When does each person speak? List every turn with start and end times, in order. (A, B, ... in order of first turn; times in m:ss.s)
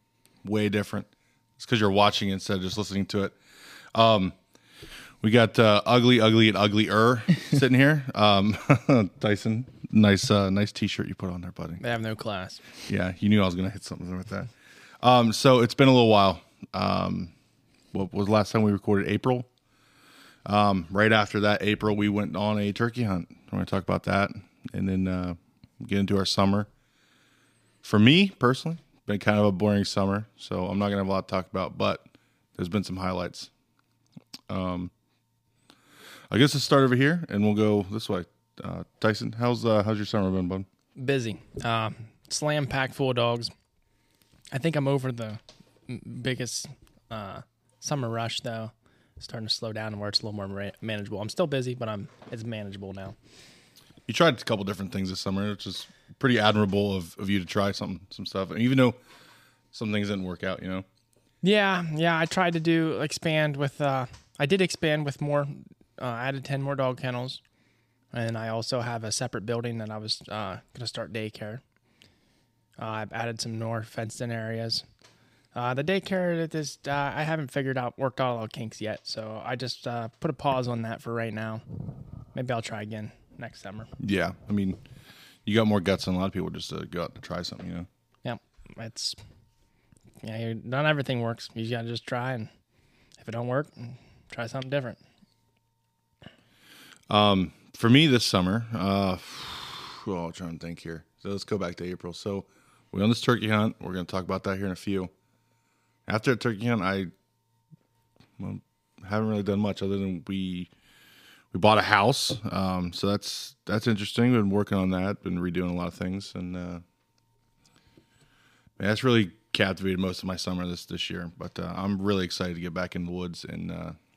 0:00.4-0:01.1 A
0:01.6-0:03.4 A
0:03.9-0:04.3 A
0:05.2-0:11.8 A
0:11.8-0:12.6 B
0:12.9-0:14.5 A
0:15.0-0:17.3 A
0:17.9-0:19.5 A
0:20.4-0:26.7 A
0:27.8-0:32.0 A
0:32.6-0:33.5 A
0:34.5-0:34.9 A
0:36.3-0:40.6 A
0:41.0-0:43.5 B
0:44.5-0:53.1 B
0:54.1-0:59.0 A
0:59.7-1:00.8 A
1:01.4-1:07.4 B
1:08.1-1:11.6 B
1:12.8-1:14.8 B
1:15.5-1:21.6 B
1:22.3-1:23.9 B
1:24.0-1:24.8 A
1:25.4-1:27.9 A
1:28.2-1:29.2 B
1:30.2-1:32.5 B
1:33.2-1:35.0 B
1:37.1-1:45.1 A
1:46.1-1:47.1 A
1:48.4-1:50.7 A
1:51.5-1:56.8 A
1:58.8-2:04.0 A